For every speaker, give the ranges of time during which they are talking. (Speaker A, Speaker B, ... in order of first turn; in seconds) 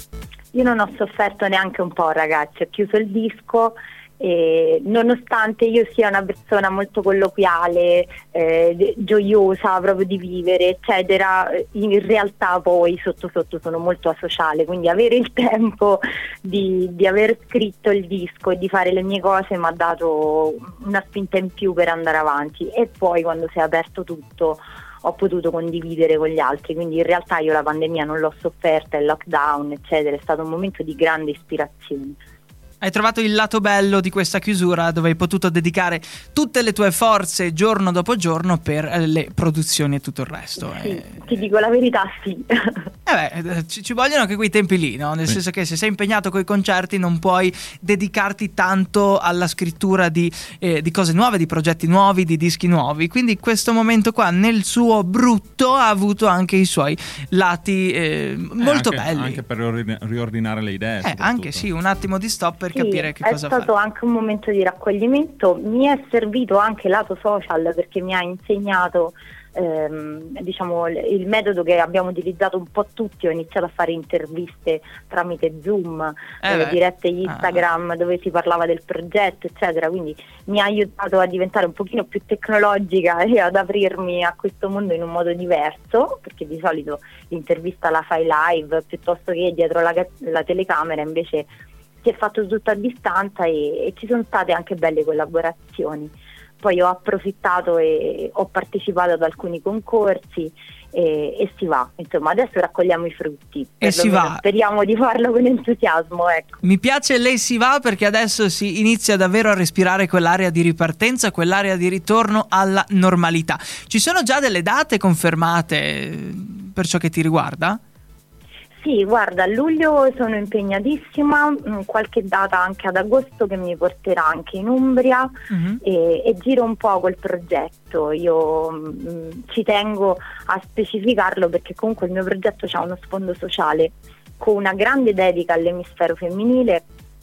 Speaker A: 0.5-32.2, 40.7-42.9, 62.7-91.5, 92.0-106.6, 118.8-136.8
Speaker B: 32.8-41.2, 43.0-59.4, 61.0-63.7, 76.4-77.6, 103.8-104.4, 106.6-117.8, 125.5-125.8
Speaker C: 58.6-61.6